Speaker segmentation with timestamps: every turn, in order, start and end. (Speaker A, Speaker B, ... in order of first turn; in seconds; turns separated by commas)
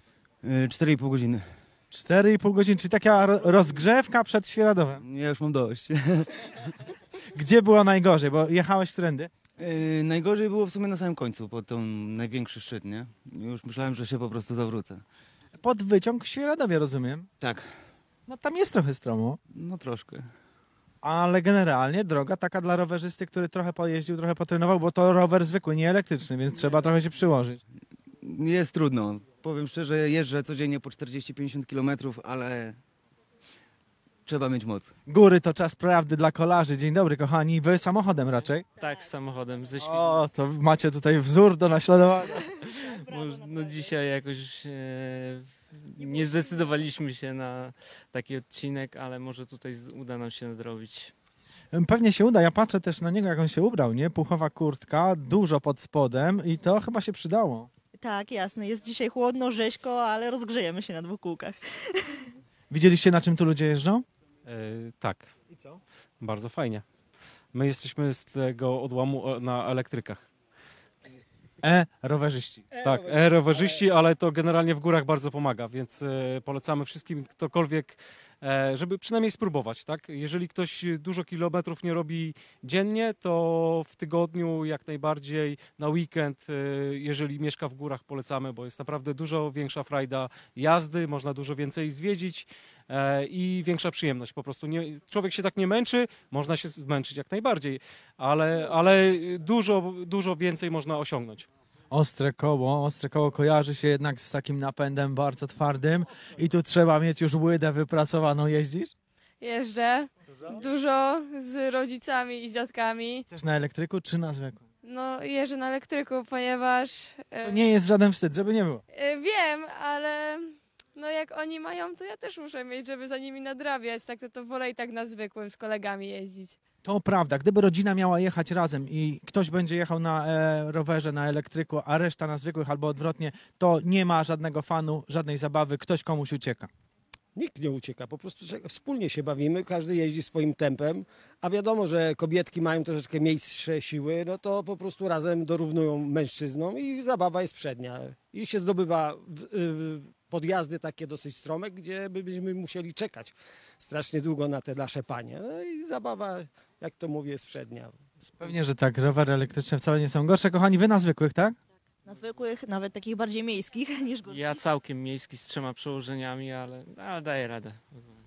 Speaker A: 0.4-1.4, Speaker B: 1.9-5.0, Speaker A: 5.0-6.7, Speaker B: 7.3-9.3, Speaker A: 9.6-15.1, Speaker B: 15.6-17.3, Speaker A: 17.4-17.7, Speaker B: 18.3-19.4, Speaker A: 19.5-20.3, Speaker B: 21.0-27.6, Speaker A: 28.2-32.8, Speaker A: 34.2-34.9, Speaker B: 35.1-38.7, Speaker C: 38.8-40.2, Speaker B: 39.8-42.5, Speaker D: 42.6-43.9, Speaker C: 42.8-51.1, Speaker D: 46.1-46.4, Speaker B: 51.7-57.7, Speaker D: 58.0-62.3, Speaker B: 62.7-64.0, Speaker E: 64.5-65.3, Speaker E: 66.2-66.8, Speaker E: 67.5-70.3, Speaker B: 71.6-72.7, Speaker F: 72.7-73.8, Speaker E: 72.8-101.5, Speaker B: 101.9-108.9, Speaker G: 109.4-113.3, Speaker B: 113.3-114.6, Speaker G: 114.8-117.7, Speaker B: 117.4-118.8, Speaker G: 118.9-126.6, Speaker B: 126.8-136.7, Speaker F: 137.4-158.5, Speaker B: 158.4-161.6, Speaker D: 162.1-164.6, Speaker C: 164.3-168.0